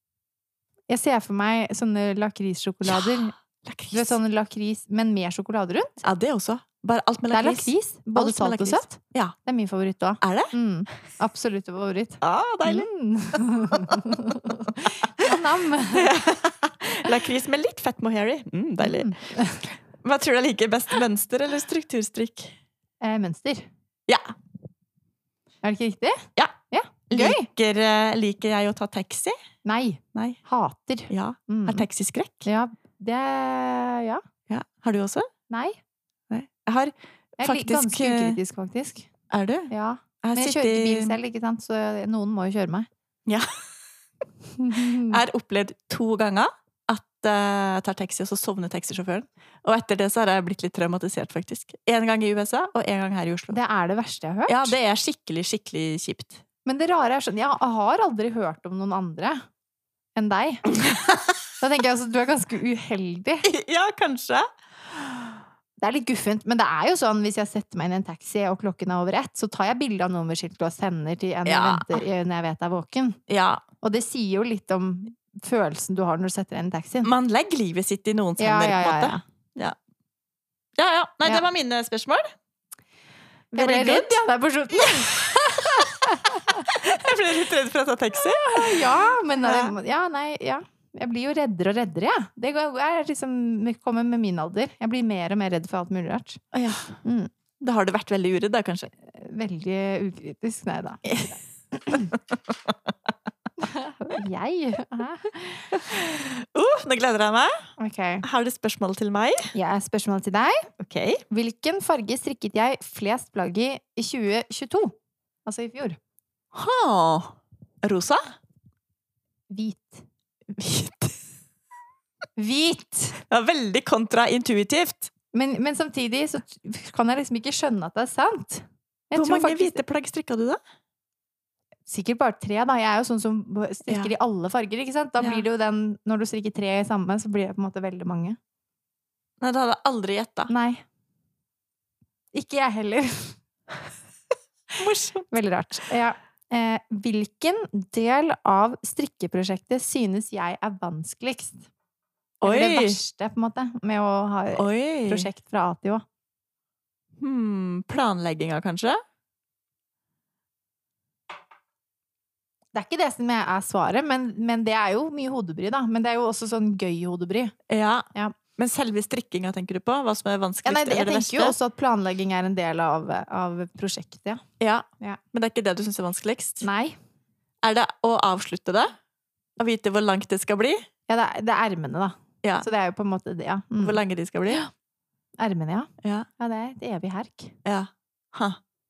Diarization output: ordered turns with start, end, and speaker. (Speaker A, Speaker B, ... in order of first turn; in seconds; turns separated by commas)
Speaker A: 0.9-3.3, Speaker B: 2.9-4.2, Speaker A: 3.9-6.0, Speaker B: 6.0-9.3, Speaker A: 7.3-16.1, Speaker B: 10.2-10.5, Speaker B: 12.2-12.9, Speaker B: 13.7-15.3, Speaker B: 15.9-22.6, Speaker A: 18.8-19.6, Speaker A: 23.0-23.7, Speaker A: 25.6-27.4, Speaker B: 27.1-29.4, Speaker A: 29.6-31.9, Speaker B: 31.1-32.5, Speaker A: 32.4-34.2, Speaker B: 34.5-35.3, Speaker A: 35.5-35.8, Speaker B: 36.3-38.4, Speaker A: 37.4-39.1, Speaker B: 39.3-39.7, Speaker A: 39.7-42.9, Speaker B: 40.2-41.2, Speaker A: 44.5-45.2, Speaker B: 44.7-53.6, Speaker A: 53.5-54.7, Speaker B: 54.5-56.4, Speaker A: 56.6-59.4, Speaker A: 60.1-60.7, Speaker B: 60.7-61.4, Speaker A: 61.6-63.5, Speaker B: 63.4-65.4, Speaker A: 65.8-73.2, Speaker B: 71.4-72.0, Speaker B: 73.3-73.6, Speaker A: 73.8-77.1, Speaker B: 77.0-79.8, Speaker A: 78.4-79.2, Speaker B: 80.8-82.3, Speaker A: 83.5-87.1, Speaker B: 83.5-85.9, Speaker B: 86.7-89.7, Speaker A: 88.2-96.4, Speaker B: 96.5-97.0, Speaker A: 97.0-97.3, Speaker B: 97.6-98.9, Speaker A: 99.1-102.1, Speaker B: 101.0-101.3, Speaker B: 102.1-102.9, Speaker A: 103.6-105.8, Speaker B: 105.7-107.6, Speaker A: 107.8-108.2, Speaker B: 108.2-109.5, Speaker A: 109.5-110.7, Speaker B: 110.8-111.2, Speaker A: 111.3-116.0, Speaker B: 116.5-118.2, Speaker A: 119.5-120.0, Speaker B: 120.5-121.2, Speaker A: 122.4-123.2, Speaker B: 123.3-125.1, Speaker A: 125.3-129.8, Speaker B: 129.2-130.6, Speaker A: 131.9-138.4, Speaker B: 135.2-135.4, Speaker B: 139.4-140.5, Speaker A: 140.5-140.8, Speaker A: 142.3-143.4, Speaker B: 144.8-145.4, Speaker A: 145.3-151.7, Speaker B: 152.4-153.0, Speaker A: 152.4-156.0, Speaker B: 154.6-155.3, Speaker B: 157.2-159.0, Speaker A: 162.7-167.5, Speaker B: 167.7-171.6, Speaker A: 170.6-174.4, Speaker B: 174.6-176.7, Speaker A: 176.6-176.9, Speaker B: 177.6-178.9, Speaker B: 179.6-180.8, Speaker A: 181.1-184.7, Speaker B: 183.8-184.6, Speaker A: 185.4-187.5, Speaker B: 186.0-186.3, Speaker B: 187.6-188.6